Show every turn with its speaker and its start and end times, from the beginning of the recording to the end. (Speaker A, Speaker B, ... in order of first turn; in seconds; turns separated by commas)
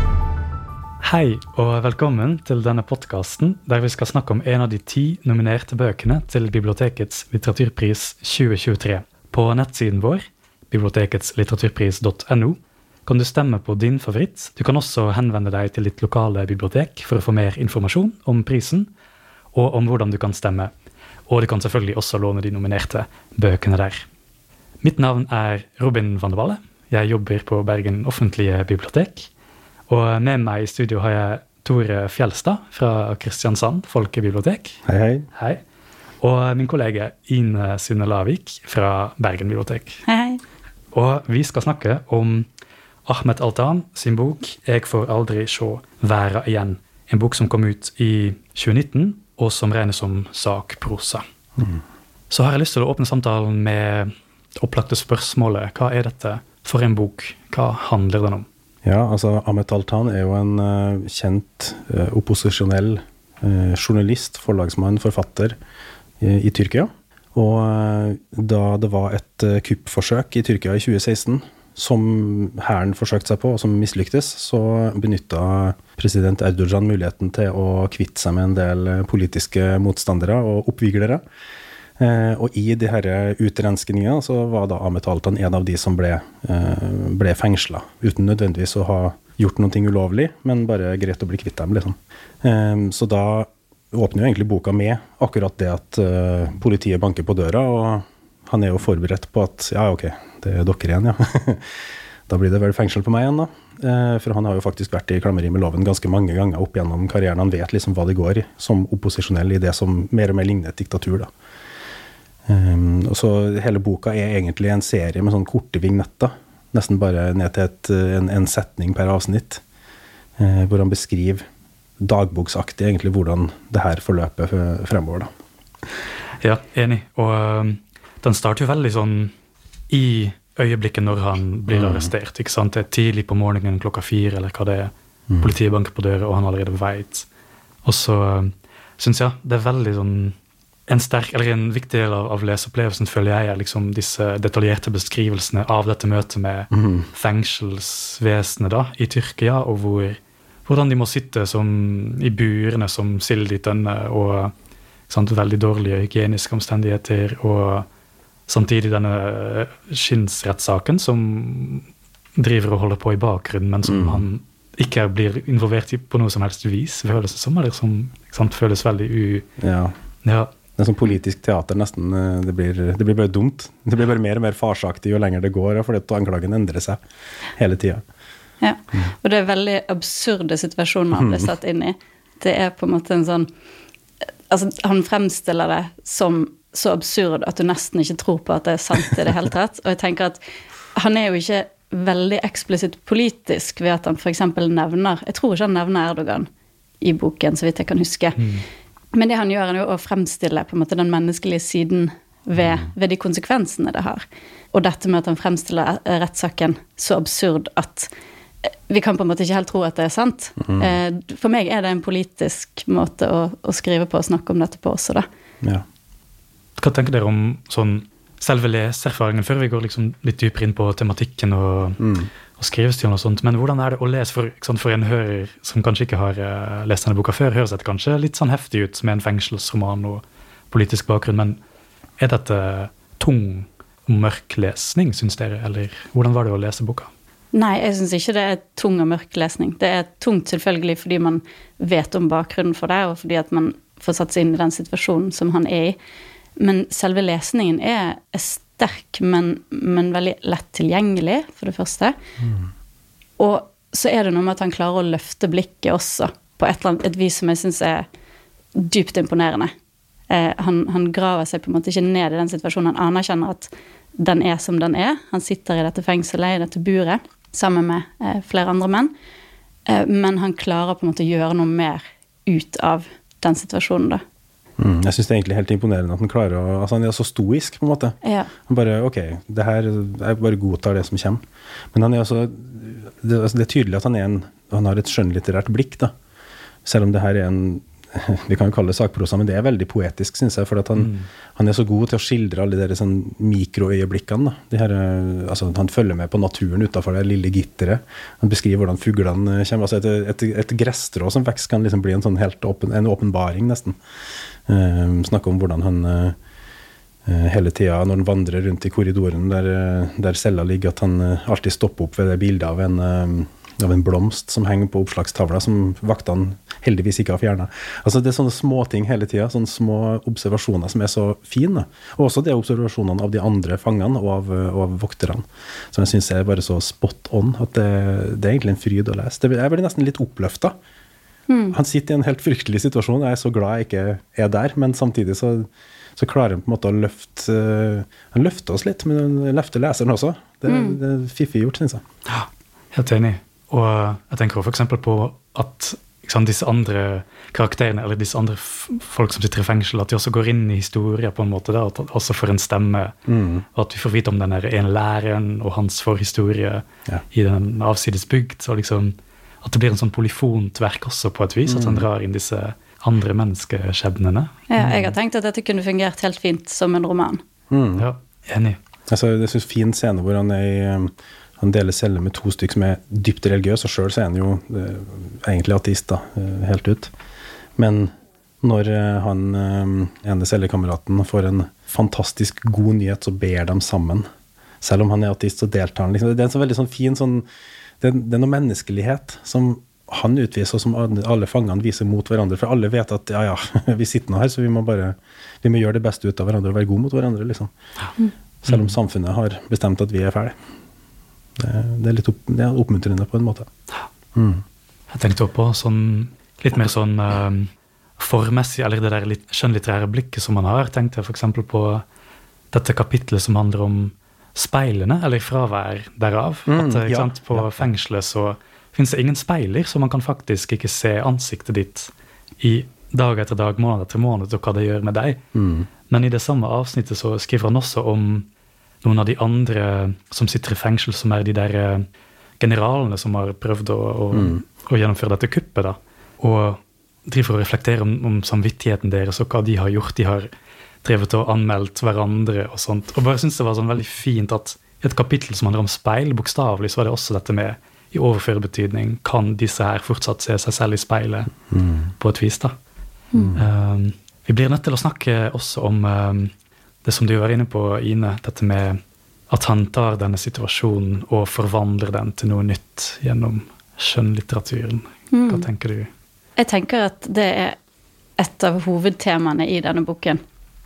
Speaker A: 1.0-18.9, Speaker A: 19.5-20.7, Speaker A: 21.3-24.0, Speaker A: 24.8-29.3, Speaker A: 29.9-34.8, Speaker B: 34.9-35.3, Speaker A: 35.3-35.6, Speaker A: 36.2-40.0, Speaker C: 40.0-40.4, Speaker A: 40.9-42.5, Speaker A: 43.0-51.2, Speaker A: 52.3-58.5, Speaker B: 58.8-65.6, Speaker B: 66.2-81.2, Speaker B: 82.0-101.6, Speaker B: 102.3-111.3, Speaker B: 112.5-119.6, Speaker B: 120.4-121.4, Speaker B: 122.0-125.3, Speaker A: 126.4-129.3, Speaker A: 129.9-137.3, Speaker B: 131.7-132.1, Speaker A: 137.8-140.3, Speaker A: 140.9-154.5, Speaker B: 146.7-147.1, Speaker A: 155.1-157.8, Speaker A: 158.5-169.5, Speaker B: 163.8-164.2, Speaker B: 169.6-169.9, Speaker A: 170.2-170.5, Speaker B: 170.8-177.0, Speaker B: 177.6-178.0, Speaker C: 178.6-183.5, Speaker B: 181.1-181.5, Speaker C: 184.5-190.4, Speaker C: 190.9-196.5, Speaker C: 197.0-198.4, Speaker A: 198.4-198.6, Speaker C: 199.1-208.1, Speaker C: 208.9-215.2, Speaker B: 210.6-211.0, Speaker A: 216.8-222.0, Speaker B: 222.0-222.3, Speaker A: 222.6-231.6, Speaker A: 232.2-237.1, Speaker C: 237.5-246.0, Speaker C: 246.6-252.1, Speaker C: 253.4-258.1, Speaker C: 258.7-259.7, Speaker C: 260.3-269.1, Speaker C: 269.9-274.2, Speaker B: 274.8-281.4, Speaker C: 278.2-278.5, Speaker B: 281.9-286.1, Speaker B: 286.8-304.0, Speaker A: 291.0-291.3, Speaker B: 304.7-306.3, Speaker B: 307.2-330.7, Speaker C: 331.5-331.8, Speaker B: 331.7-342.0, Speaker C: 340.7-341.0, Speaker A: 342.3-353.1, Speaker B: 353.3-353.6, Speaker A: 353.7-364.7, Speaker B: 361.6-362.1, Speaker C: 364.7-367.4, Speaker B: 364.8-365.1, Speaker B: 367.7-368.0, Speaker A: 368.0-368.8, Speaker B: 369.1-377.1, Speaker B: 377.8-378.1, Speaker B: 378.6-384.2, Speaker B: 384.8-387.4, Speaker B: 388.0-397.7, Speaker B: 398.6-400.5, Speaker A: 398.7-399.0, Speaker B: 401.6-403.7, Speaker B: 404.3-404.6, Speaker A: 405.1-412.0, Speaker A: 412.7-425.4, Speaker B: 416.7-417.9, Speaker B: 425.5-425.9, Speaker A: 426.1-428.5, Speaker A: 429.0-432.0, Speaker A: 432.6-440.5, Speaker B: 434.3-434.6, Speaker A: 441.0-451.5, Speaker B: 451.7-452.1, Speaker A: 452.2-452.7, Speaker B: 453.3-453.6, Speaker A: 453.6-456.5, Speaker A: 457.0-459.0, Speaker A: 459.5-466.1, Speaker C: 465.3-465.6, Speaker C: 466.6-467.8, Speaker C: 468.4-470.4